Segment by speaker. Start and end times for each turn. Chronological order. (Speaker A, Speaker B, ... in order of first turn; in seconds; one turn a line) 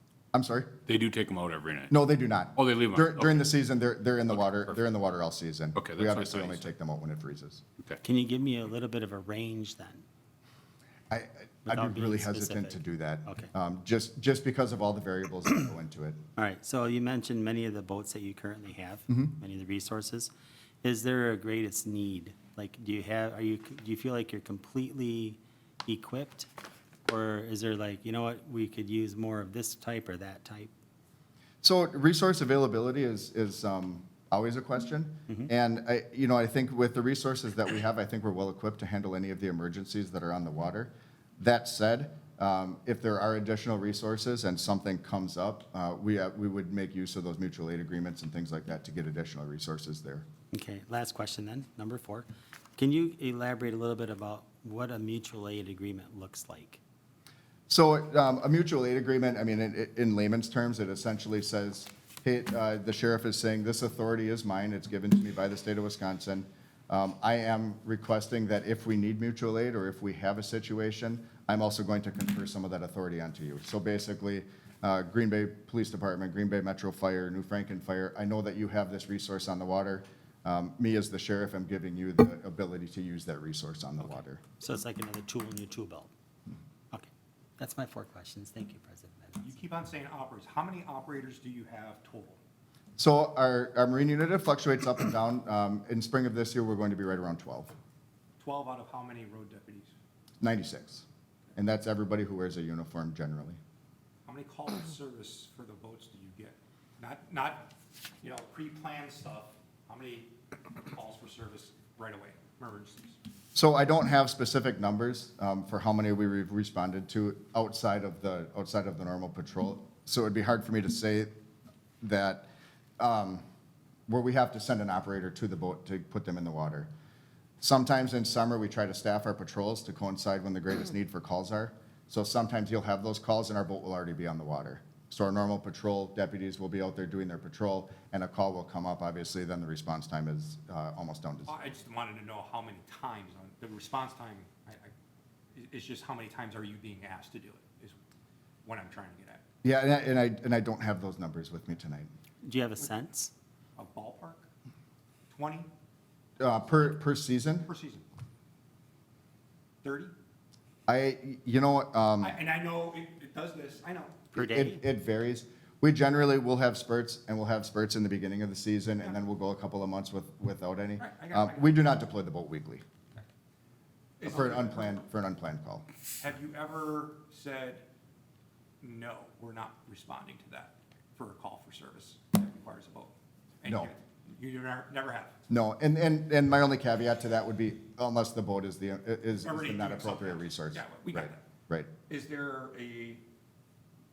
Speaker A: 0.3-0.7
Speaker B: 0.9-1.9
Speaker A: 1.9-7.6
Speaker B: 2.5-3.5
Speaker B: 4.3-4.8
Speaker B: 5.8-6.7
Speaker C: 8.0-10.0
Speaker A: 11.1-16.2
Speaker C: 11.7-13.5
Speaker C: 16.4-20.3
Speaker A: 19.1-19.3
Speaker C: 20.8-26.5
Speaker C: 27.1-30.7
Speaker A: 31.6-50.3
Speaker C: 50.5-56.8
Speaker A: 57.7-84.4
Speaker C: 84.6-86.1
Speaker C: 86.9-89.5
Speaker D: 89.4-92.4
Speaker A: 93.0-97.7
Speaker D: 98.4-99.9
Speaker A: 100.4-103.6
Speaker D: 104.3-113.2
Speaker A: 113.5-121.3
Speaker A: 122.0-122.5
Speaker A: 123.0-123.5
Speaker A: 124.1-126.9
Speaker A: 127.6-141.8
Speaker D: 141.5-144.9
Speaker D: 145.5-148.0
Speaker D: 148.6-149.4
Speaker A: 149.6-152.1
Speaker C: 152.4-153.3
Speaker D: 153.8-154.5
Speaker D: 155.3-155.7
Speaker A: 156.4-157.7
Speaker D: 156.6-158.1
Speaker D: 159.8-160.1
Speaker A: 160.9-162.4
Speaker D: 162.2-164.3
Speaker A: 164.3-172.8
Speaker C: 164.4-164.8
Speaker D: 171.0-171.8
Speaker D: 174.2-174.9
Speaker A: 174.2-175.9
Speaker D: 176.2-177.9
Speaker D: 178.8-185.4
Speaker A: 183.7-183.9
Speaker A: 185.5-191.9
Speaker D: 189.4-191.4
Speaker D: 192.1-193.2